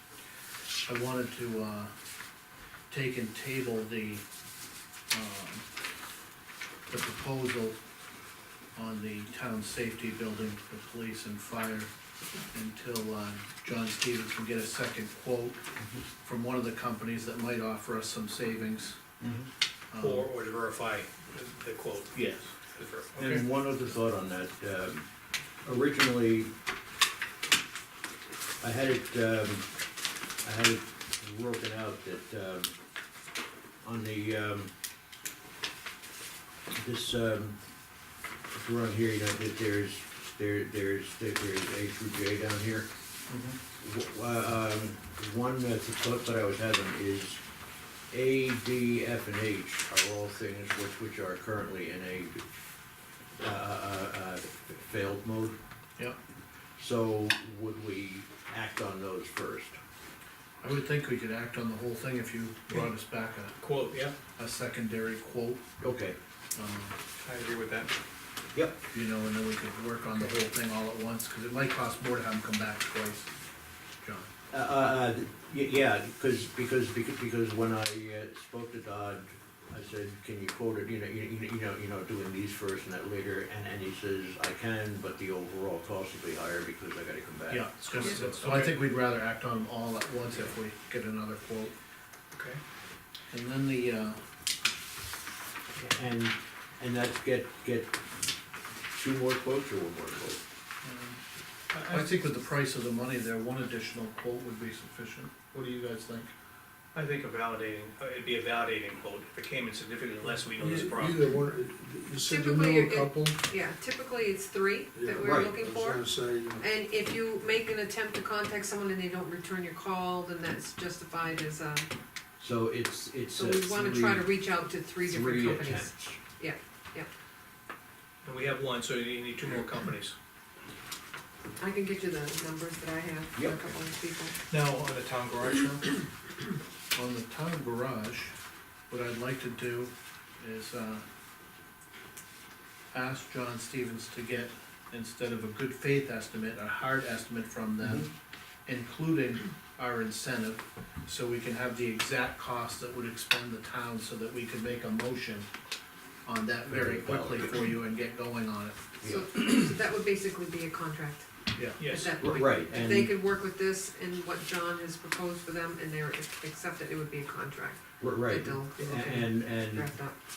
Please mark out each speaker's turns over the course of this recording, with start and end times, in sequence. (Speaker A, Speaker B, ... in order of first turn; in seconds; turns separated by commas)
Speaker A: 0.8-1.9, Speaker A: 2.9-4.2, Speaker A: 5.1-5.6, Speaker A: 6.9-7.8, Speaker A: 8.7-11.9, Speaker A: 12.5-15.6, Speaker A: 16.2-19.3, Speaker A: 19.9-20.3, Speaker B: 20.0-22.1, Speaker A: 22.1-22.5, Speaker B: 22.7-23.5, Speaker C: 23.2-25.1, Speaker C: 25.6-26.5, Speaker C: 28.6-29.7, Speaker C: 30.4-32.7, Speaker C: 33.8-34.7, Speaker C: 36.7-37.6, Speaker C: 38.5-42.9, Speaker A: 43.3-43.6, Speaker C: 43.8-47.4, Speaker C: 48.1-52.4, Speaker C: 53.4-55.6, Speaker C: 56.8-59.8, Speaker A: 60.6-63.6, Speaker B: 63.6-64.1, Speaker A: 64.4-65.6, Speaker C: 65.8-66.2, Speaker A: 66.5-67.0, Speaker B: 67.2-67.9, Speaker C: 68.5-68.8, Speaker A: 68.9-73.3, Speaker A: 74.0-74.3, Speaker C: 74.5-88.5, Speaker A: 87.5-91.7, Speaker B: 87.9-88.7, Speaker B: 92.3-92.6, Speaker A: 93.3-94.2, Speaker C: 95.8-98.0, Speaker C: 98.9-100.4, Speaker A: 100.8-101.2, Speaker B: 101.7-102.2, Speaker A: 101.8-106.3, Speaker B: 106.9-111.2, Speaker D: 110.5-113.4, Speaker E: 112.2-116.0, Speaker D: 114.9-116.6, Speaker C: 115.2-115.5, Speaker E: 116.6-121.9, Speaker C: 122.4-124.4, Speaker E: 123.3-127.1, Speaker C: 125.1-126.2, Speaker B: 128.2-130.1, Speaker E: 131.6-134.3, Speaker C: 133.3-133.7, Speaker B: 134.5-136.0, Speaker A: 136.9-138.3, Speaker A: 138.9-141.0, Speaker A: 142.9-148.1, Speaker A: 148.7-155.5, Speaker A: 156.2-158.9, Speaker C: 156.7-157.7, Speaker C: 159.0-159.5, Speaker E: 159.0-161.3, Speaker A: 161.6-161.8, Speaker B: 161.8-162.2, Speaker E: 161.8-170.1, Speaker C: 162.2-163.1, Speaker C: 168.0-169.9